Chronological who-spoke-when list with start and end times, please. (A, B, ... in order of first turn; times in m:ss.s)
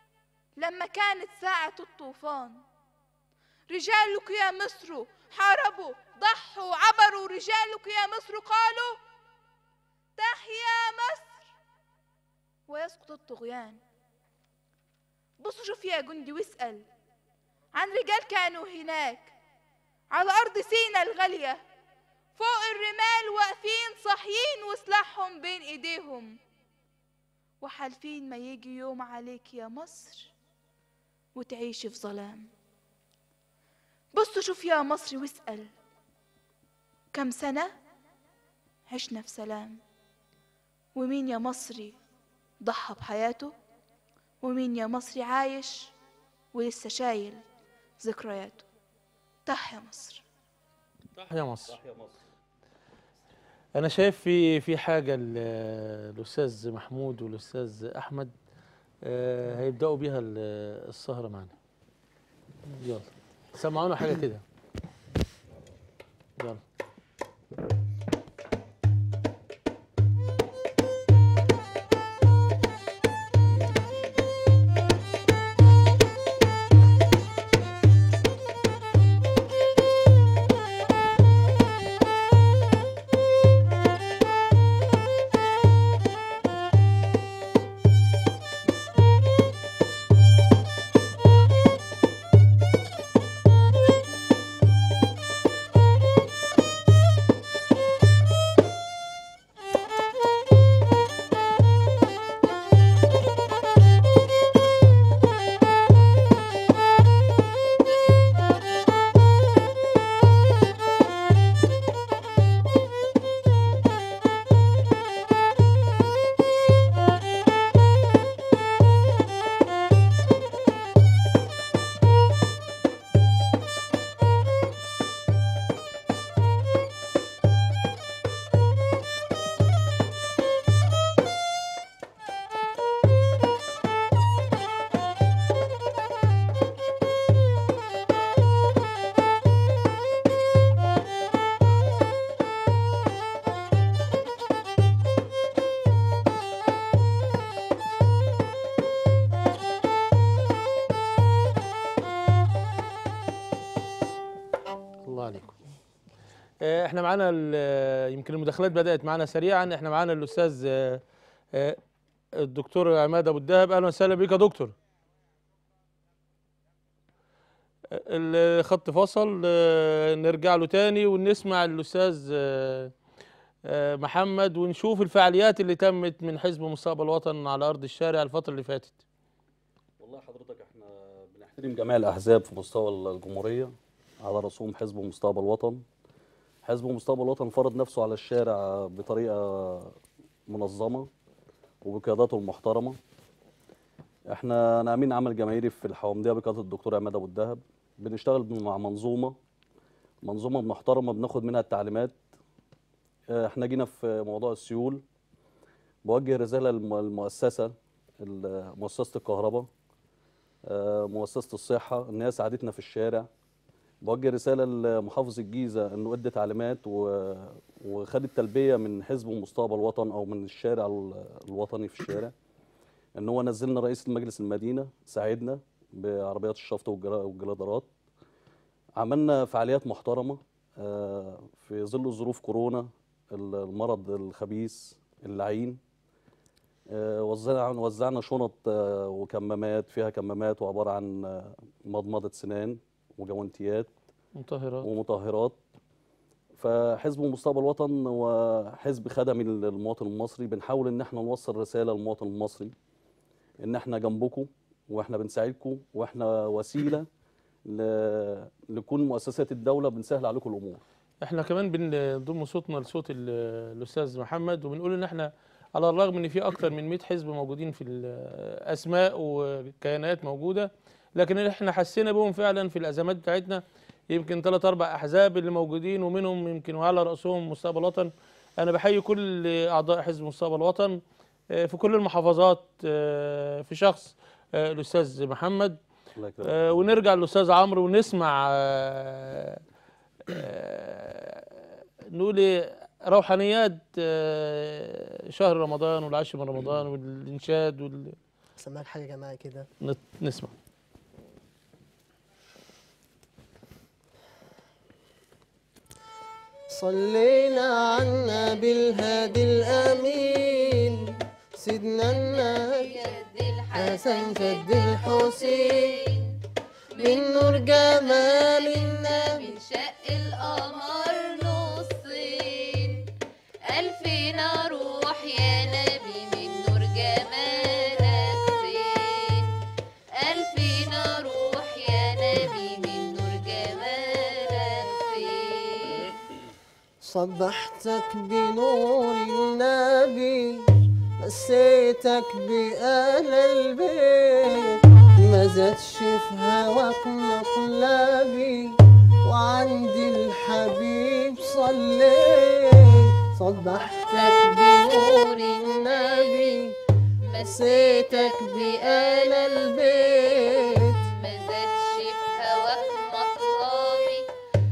0:00.6-0:02.6 A
0:03.7-0:09.0 A
0:10.2-0:11.5 A
0:12.7-0:13.8 A
0:15.4-0:16.9 A
0:17.7-0:19.3 A
0:20.1-0:21.6 A
0:22.4-0:26.4 A
0:27.6-0:30.3 A
0:31.4-0:32.5 A
0:34.1-0:35.7 A
0:37.1-0:37.7 A
0:38.9-0:39.8 A
0:40.9-0:42.0 A
0:42.6-0:43.5 A
0:44.4-0:45.9 A
0:46.5-0:47.4 A
0:48.0-0:48.6 A
0:49.4-0:50.2 A
0:51.2-0:51.8 B
0:51.7-0:52.2 C
0:53.8-0:58.3 B
0:59.0-1:01.5 B
1:02.7-1:04.4 B
2:35.0-2:35.6 B
2:36.6-2:41.0 B
2:41.5-2:41.8 B
2:42.4-2:44.8 B
2:47.9-2:52.9 B
2:53.6-2:59.0 B
3:00.0-3:05.8 C
3:06.6-3:10.0 C
3:10.5-3:11.1 C
3:11.8-3:13.0 C
3:14.3-3:19.4 C
3:20.2-3:22.2 C
3:23.3-3:25.0 C
3:26.0-3:29.7 C
3:30.7-3:33.3 C
3:34.0-3:42.3 C
3:43.2-3:47.9 C
3:49.0-3:55.8 C
3:56.9-4:03.9 C
4:04.4-4:04.9 B
4:04.8-4:05.6 C
4:06.6-4:12.7 C
4:13.6-4:17.1 C
4:17.6-4:20.8 C
4:21.2-4:41.0 B
4:41.5-4:45.8 B
4:46.2-4:46.6 C
4:46.4-4:49.6 B
4:50.3-4:58.2 B
4:58.6-4:59.7 D
4:59.8-5:00.5 B
5:06.7-5:13.0 D
5:08.7-5:10.8 E
5:12.1-5:16.4 E
5:13.7-5:16.0 D
5:16.9-5:23.1 E
5:17.0-5:19.5 D
5:23.6-5:29.6 E
5:30.2-5:36.2 E
5:37.0-5:56.8 D
5:54.0-5:56.6 E
5:57.2-6:04.2 E
5:57.4-6:01.1 D